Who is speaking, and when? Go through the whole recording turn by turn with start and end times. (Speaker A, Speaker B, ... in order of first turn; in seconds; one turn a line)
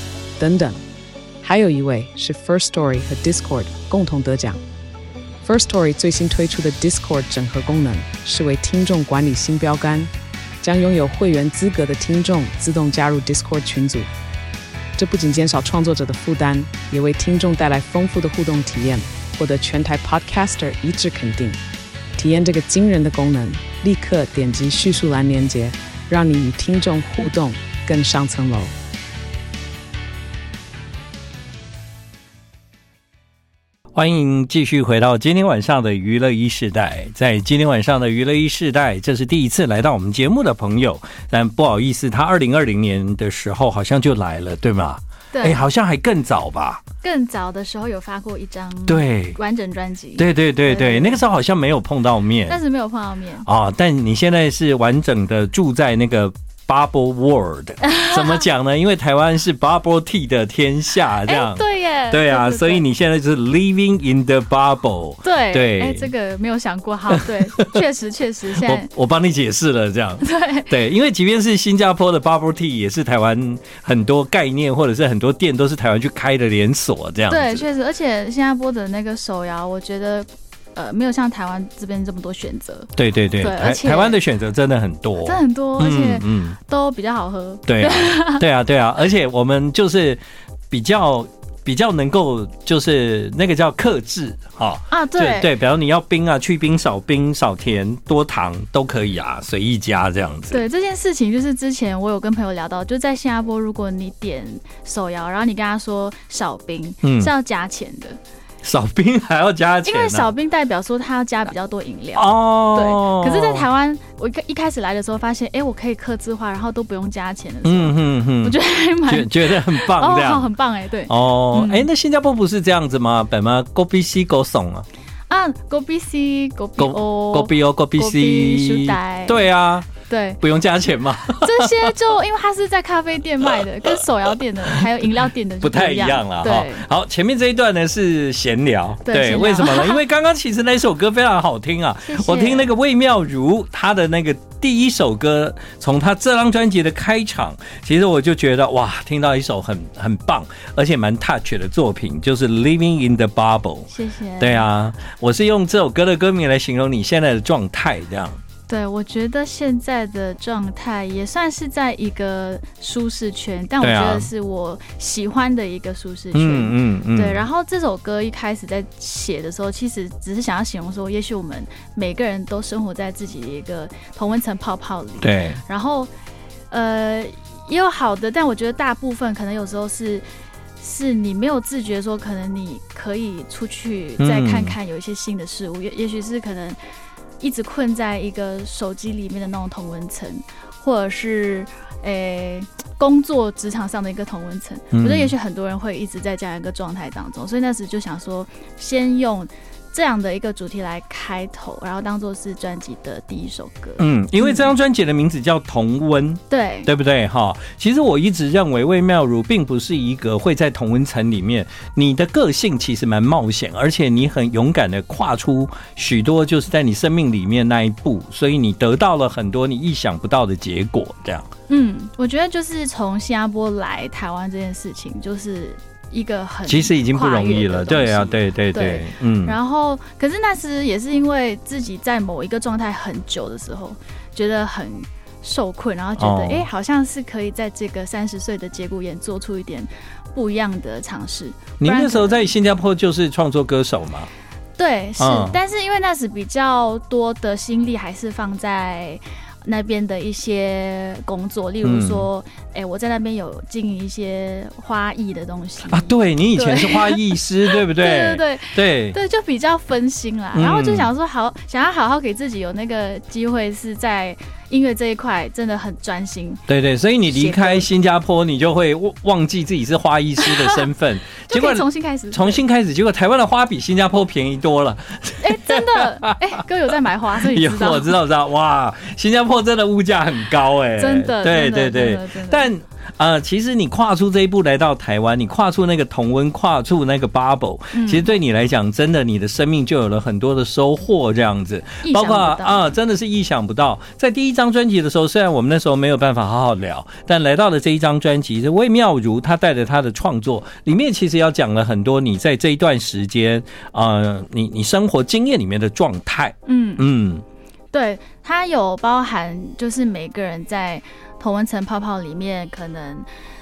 Speaker A: 0.4-0.8
Speaker A: 1.4-4.6
Speaker A: 5.4-14.1
Speaker A: 15.0-21.6
Speaker A: 22.1-28.7
Speaker B: 34.0-46.8
Speaker C: 45.3-45.6
Speaker C: 47.0-51.2
Speaker B: 48.9-49.4
Speaker B: 50.2-52.6
Speaker C: 52.5-53.5
Speaker B: 53.5-66.1
Speaker C: 57.8-58.5
Speaker C: 61.2-62.9
Speaker C: 65.2-68.9
Speaker B: 67.1-67.7
Speaker B: 68.6-77.7
Speaker C: 70.2-70.7
Speaker C: 77.3-84.2
Speaker B: 83.0-86.6
Speaker C: 85.2-88.4
Speaker B: 87.7-100.6
Speaker C: 94.9-95.5
Speaker C: 100.5-108.2
Speaker B: 107.0-107.3
Speaker B: 108.6-110.3
Speaker C: 109.8-121.9
Speaker B: 112.2-113.7
Speaker B: 117.6-120.5
Speaker B: 121.1-124.9
Speaker C: 125.3-129.5
Speaker B: 126.8-131.9
Speaker C: 130.1-130.4
Speaker C: 131.4-136.9
Speaker B: 133.5-134.0
Speaker B: 135.6-158.4
Speaker C: 139.1-140.0
Speaker C: 142.1-142.7
Speaker C: 153.9-154.7
Speaker C: 158.7-176.1
Speaker B: 163.8-164.3
Speaker B: 166.3-167.4
Speaker B: 175.2-175.6
Speaker C: 176.7-180.2
Speaker C: 180.8-186.8
Speaker B: 184.2-184.8
Speaker C: 187.4-204.7
Speaker B: 194.9-195.3
Speaker B: 204.0-221.5
Speaker C: 206.5-206.9
Speaker C: 221.7-242.5
Speaker B: 226.7-229.6
Speaker B: 236.2-236.7
Speaker B: 241.8-244.3
Speaker C: 244.8-266.7
Speaker B: 245.2-245.6
Speaker B: 251.8-252.3
Speaker B: 255.9-259.2
Speaker B: 260.5-261.1
Speaker B: 266.7-276.6
Speaker C: 267.3-267.9
Speaker C: 270.4-270.8
Speaker C: 271.5-272.6
Speaker C: 275.4-278.2
Speaker B: 277.4-307.4
Speaker C: 281.0-282.7
Speaker C: 287.9-288.3
Speaker C: 292.0-292.9
Speaker C: 306.7-307.1
Speaker C: 307.9-313.3